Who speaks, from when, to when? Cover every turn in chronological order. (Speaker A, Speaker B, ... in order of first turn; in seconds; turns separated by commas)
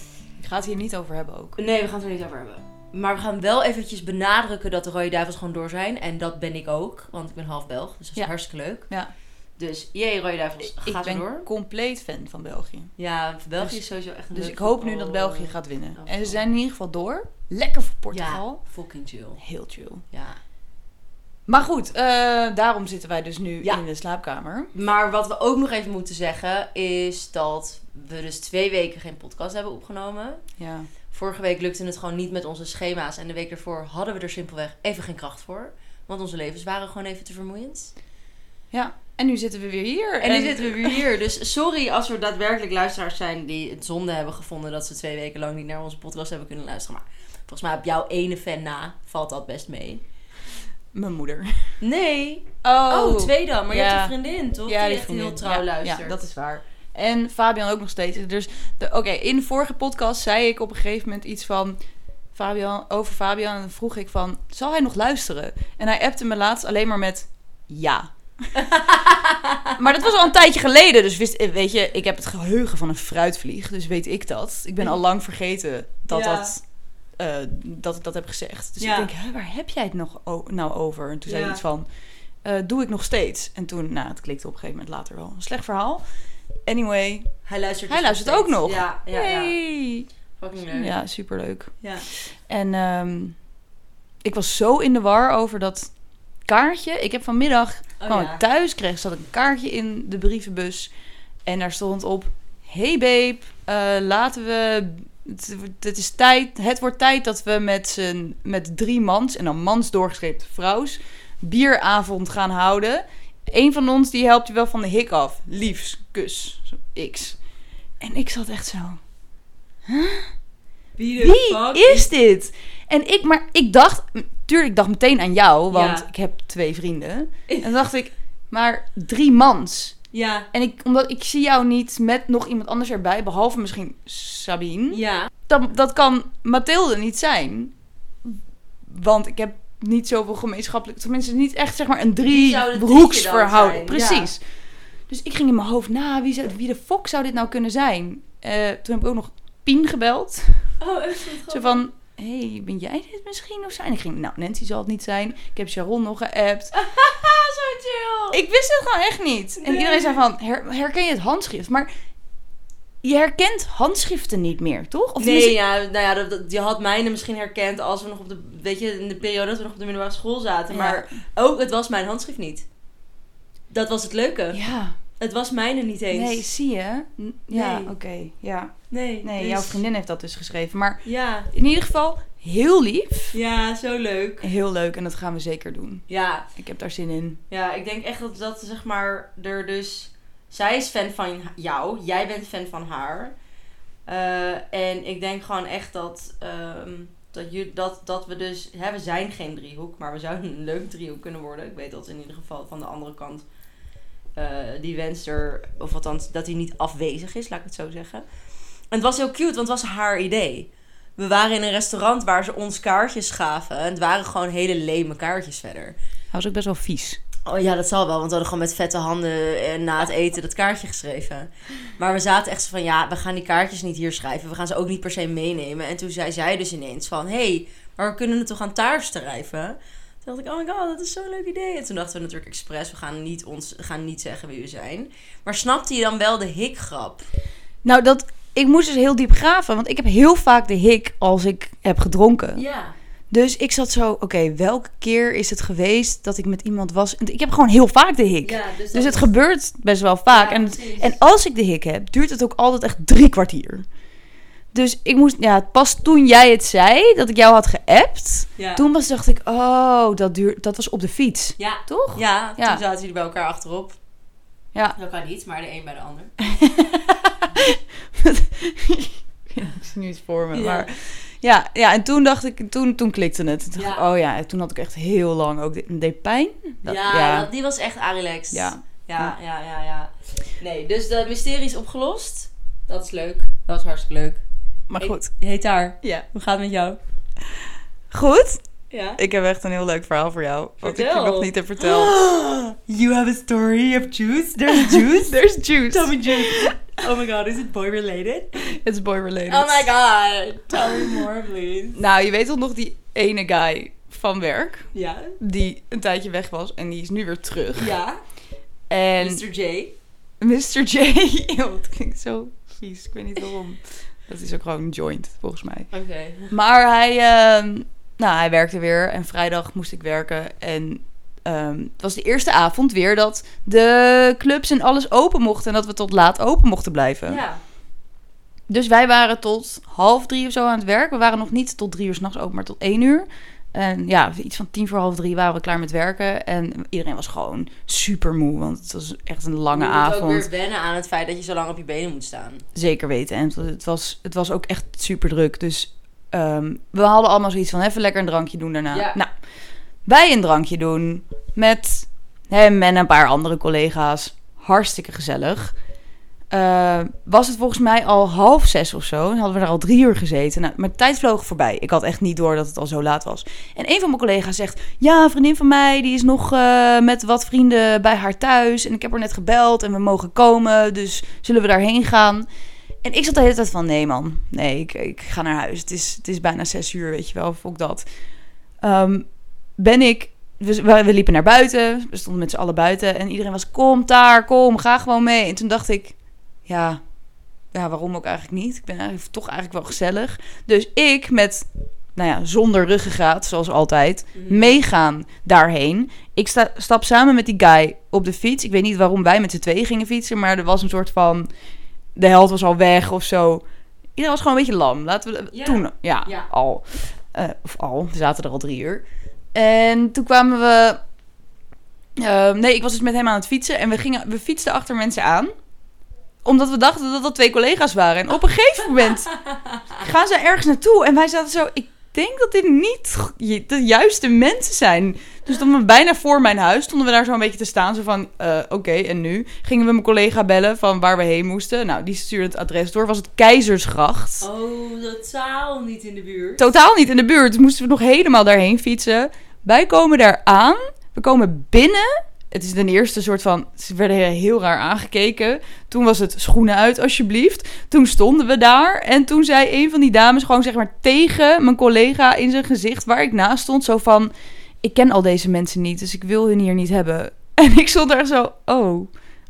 Speaker A: 0.4-1.6, Speaker B: 1.6-8.9, Speaker B: 9.6-11.5, Speaker A: 10.6-12.9, Speaker B: 13.0-16.4, Speaker A: 14.3-18.6, Speaker B: 18.1-19.4, Speaker A: 19.4-20.0, Speaker B: 20.1-20.4, Speaker A: 21.5-24.7, Speaker B: 24.7-30.4, Speaker A: 30.6-30.9, Speaker B: 31.1-37.9, Speaker A: 38.7-41.0, Speaker B: 40.2-50.0, Speaker A: 50.9-51.5, Speaker B: 51.8-56.6, Speaker A: 52.6-54.1, Speaker A: 54.6-61.8, Speaker A: 62.3-68.1, Speaker B: 68.5-69.8, Speaker A: 69.8-76.6, Speaker B: 76.1-76.5, Speaker A: 77.2-81.9, Speaker B: 78.8-79.1, Speaker B: 81.3-81.6, Speaker A: 82.4-86.0, Speaker A: 86.7-87.3, Speaker B: 87.5-89.5, Speaker A: 87.9-90.1, Speaker B: 90.4-91.0, Speaker A: 90.7-91.7, Speaker A: 92.5-93.4, Speaker A: 94.2-95.9, Speaker A: 96.5-100.9, Speaker B: 98.0-98.4, Speaker A: 101.5-117.4, Speaker A: 118.0-119.0, Speaker A: 119.8-120.3, Speaker B: 121.0-122.1, Speaker A: 121.2-130.0, Speaker B: 125.7-126.1, Speaker B: 130.1-130.5, Speaker A: 130.5-137.7, Speaker B: 134.9-135.3, Speaker A: 138.2-144.4, Speaker B: 142.3-144.3, Speaker A: 145.1-150.7, Speaker B: 150.8-151.8, Speaker A: 151.5-156.7, Speaker B: 156.7-158.4, Speaker A: 158.3-161.9, Speaker B: 159.6-160.2, Speaker A: 163.0-165.6, Speaker B: 165.2-172.7, Speaker A: 170.7-171.1, Speaker B: 173.7-174.6, Speaker A: 174.5-174.9, Speaker B: 175.2-176.5, Speaker A: 176.1-183.3, Speaker B: 177.5-177.9, Speaker B: 178.9-179.8, Speaker B: 181.0-181.5, Speaker B: 183.3-184.5, Speaker A: 184.4-186.0, Speaker B: 186.1-186.5, Speaker A: 186.5-187.4, Speaker B: 187.5-193.3, Speaker B: 194.1-203.4, Speaker B: 204.3-208.2, Speaker B: 208.9-215.9, Speaker A: 216.3-217.2, Speaker B: 217.4-237.2, Speaker A: 237.8-242.6, Speaker B: 242.5-242.9, Speaker A: 243.3-253.8, Speaker B: 248.4-249.3, Speaker B: 250.3-251.2, Speaker A: 254.7-262.8, Speaker B: 258.6-258.8, Speaker B: 261.6-264.0, Speaker B: 264.9-266.3, Speaker A: 266.4-277.5, Speaker B: 270.5-270.9, Speaker B: 273.8-274.0, Speaker B: 276.8-284.4, Speaker A: 278.5-279.3, Speaker A: 284.9-285.3, Speaker B: 285.0-287.0, Speaker A: 288.1-288.6, Speaker B: 288.9-289.2, Speaker A: 289.2-292.1, Speaker B: 290.8-295.4, Speaker A: 294.7-296.8, Speaker B: 295.9-298.6, Speaker A: 298.6-299.9, Speaker B: 299.5-302.0, Speaker A: 301.9-307.9, Speaker B: 304.9-305.4, Speaker B: 307.8-308.2, Speaker A: 308.9-309.4, Speaker B: 309.2-309.9, Speaker A: 310.4-315.9, Speaker B: 315.9-316.5, Speaker A: 316.5-327.4, Speaker B: 327.2-327.6, Speaker A: 328.7-340.5, Speaker B: 339.7-342.6, Speaker A: 342.7-349.3, Speaker B: 348.9-349.2, Speaker A: 350.1-355.7, Speaker A: 356.5-372.4, Speaker A: 373.0-378.1, Speaker A: 378.8-386.1, Speaker A: 386.6-387.0, Speaker A: 387.7-401.5, Speaker B: 394.3-394.8, Speaker A: 402.1-403.6, Speaker A: 404.1-411.0, Speaker B: 405.5-406.5, Speaker A: 412.1-415.5, Speaker A: 416.4-419.3, Speaker A: 419.9-434.5, Speaker B: 434.4-436.7, Speaker A: 436.6-454.3, Speaker A: 454.8-459.1